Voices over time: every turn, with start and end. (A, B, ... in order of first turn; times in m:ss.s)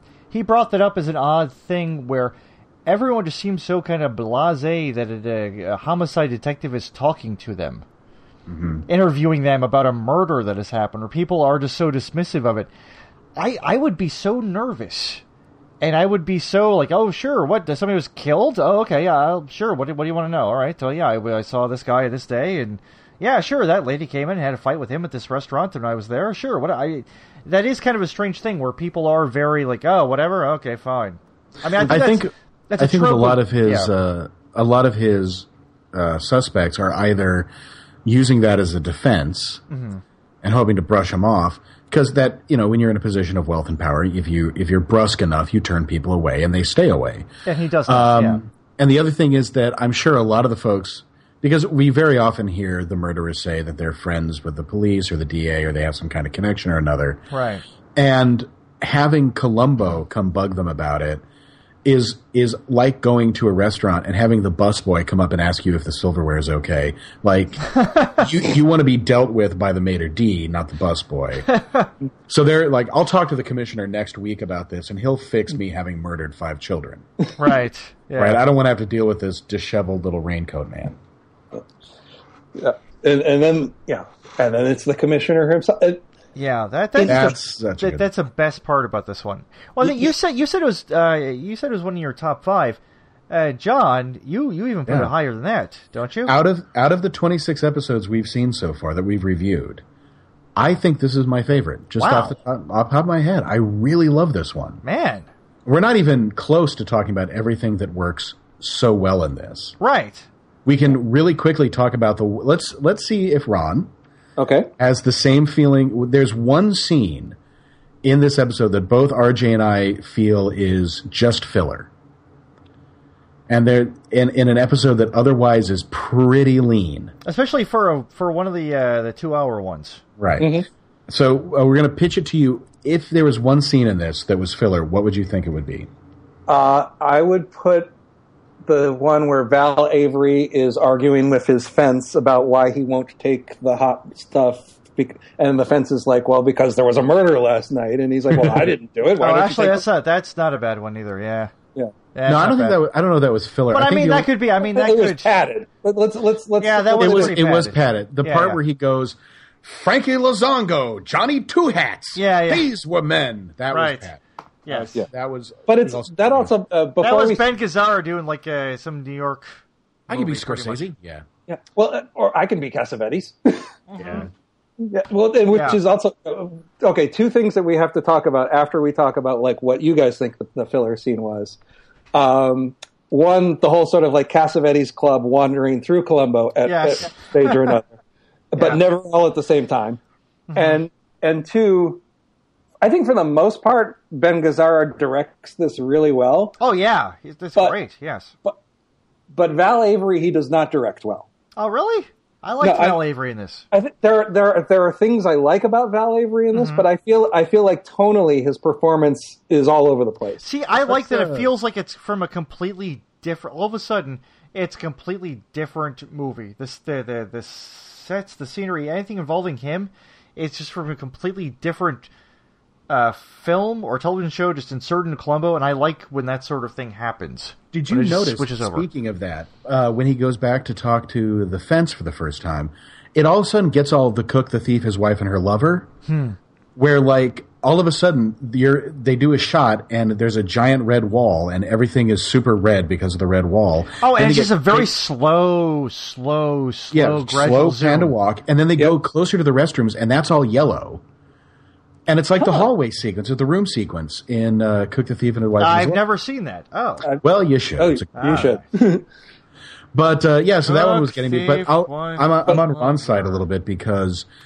0:00.3-0:02.3 A
0:02.8-0:07.8 A
0:08.5-0:08.8 B
0:08.9-0:12.7 A
0:13.4-0:15.2 A
0:15.8-0:33.9 A
0:31.7-0:37.5 B
0:38.0-0:39.6 B
0:39.7-0:40.0 A
0:40.4-0:47.3 B
0:47.4-0:48.4 A
0:47.8-0:57.2 B
0:57.3-0:57.6 A
0:57.9-1:01.2 B
1:01.8-1:11.5 B
1:07.8-1:08.2 A
1:11.5-1:11.9 A
1:12.3-1:17.0 B
1:17.4-1:18.4 A
1:18.2-1:21.0 B
1:22.6-1:26.0 C
1:26.3-1:32.8 A
1:27.0-1:27.3 C
1:27.0-1:28.1 B
1:29.8-1:30.1 C
1:33.3-1:36.4 A
1:34.9-1:35.1 B
1:36.2-1:39.8 B
1:40.6-1:44.8 B
1:42.0-1:42.4 A
1:44.8-1:45.3 A
1:45.6-1:49.7 B
1:49.8-1:50.3 A
1:50.6-1:53.9 B
1:54.4-1:54.7 C
1:54.8-1:57.4 B
1:58.0-2:01.9 B
2:03.5-2:07.1 B
2:07.2-2:10.0 A
2:10.2-2:10.5 B
2:10.4-2:10.7 C
2:11.1-2:15.9 B
2:16.5-2:17.9 C
2:18.6-2:29.8 C
2:29.2-2:31.5 A
2:32.1-2:32.8 A
2:32.2-2:34.3 B
2:33.7-2:35.4 A
2:34.6-2:37.4 C
2:36.6-2:38.6 A
2:37.0-2:44.2 B
2:42.2-2:42.6 A
2:43.7-2:44.1 A
2:44.6-2:45.0 A
2:44.7-2:46.5 B
2:45.7-2:47.4 C
2:47.0-2:49.6 A
2:50.1-2:50.9 A
2:50.1-2:51.2 B
2:51.5-2:53.7 C
2:53.9-2:54.3 A
2:54.0-2:54.3 B
2:54.8-3:01.6 C
2:55.5-2:55.8 A
3:02.1-3:07.9 C
3:06.6-3:07.8 A
3:08.5-3:10.0 C
3:10.5-3:10.8 A
3:10.5-3:12.0 C
3:12.8-3:16.6 C
3:16.6-3:18.3 A
3:19.3-3:21.2 C
3:21.6-3:23.6 A
3:22.6-3:23.0 C
3:23.7-3:30.4 C
3:26.5-3:26.8 A
3:30.4-3:42.1 A
3:30.8-3:31.5 B
3:42.9-3:48.8 A
3:47.7-3:55.9 B
3:56.1-3:56.4 A
3:56.8-4:04.9 B
4:04.0-4:08.1 A
4:06.9-4:11.0 B
4:12.1-4:16.0 B
4:12.4-4:12.6 C
4:15.6-4:17.1 A
4:17.2-4:18.5 B
4:17.8-4:19.0 C
4:18.2-4:18.6 A
4:19.9-4:24.2 B
4:20.6-4:23.4 A